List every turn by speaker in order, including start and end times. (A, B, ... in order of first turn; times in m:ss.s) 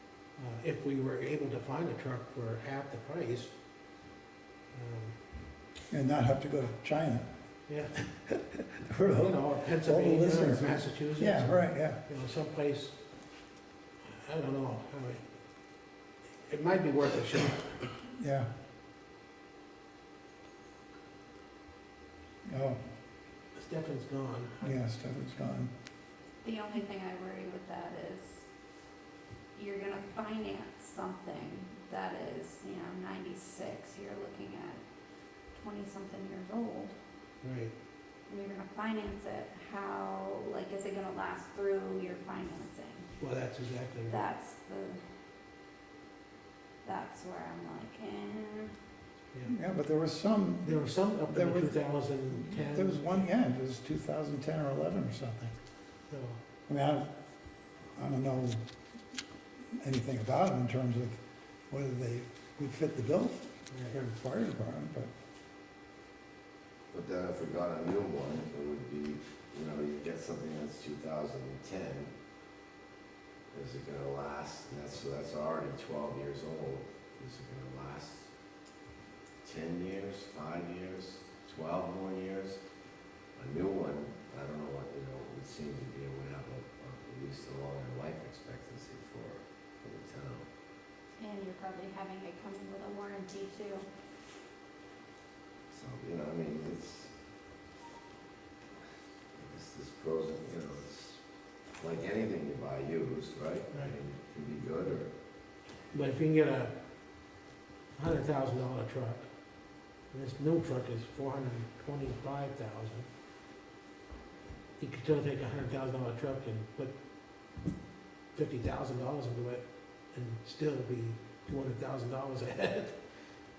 0:00.4-0:03.5 A
0:04.7-0:05.2 A
0:05.9-0:07.3 B
0:07.7-0:08.0 A
0:08.3-0:12.0 B
0:09.2-0:13.0 A
0:14.1-0:15.2 A
0:16.4-0:17.8 A
0:18.1-0:18.5 B
0:22.5-0:22.8 B
0:23.6-0:24.8 A
0:24.6-0:25.7 B
0:26.4-0:28.4 C
0:29.6-0:34.8 C
0:35.5-0:36.9 C
0:37.4-0:37.7 A
0:38.3-0:43.1 C
0:43.2-0:44.3 A
0:44.1-0:45.0 C
0:46.8-0:48.8 C
0:49.4-0:51.8 B
0:50.7-0:53.1 A
0:52.3-0:55.6 B
0:56.1-0:56.4 A
0:56.7-0:57.2 B
0:58.0-0:58.6 B
0:59.8-1:05.1 B
1:03.7-1:04.0 A
1:06.9-1:12.1 D
1:13.5-1:18.3 D
1:19.4-1:22.6 D
1:23.4-1:30.5 D
1:31.2-1:33.9 C
1:35.7-1:37.1 D
1:39.4-1:41.2 D
1:41.8-1:45.1 D
1:45.9-1:46.7 A
1:48.0-1:49.3 A
1:50.1-1:53.1 A
1:54.8-1:56.9 A
1:58.3-2:03.0 A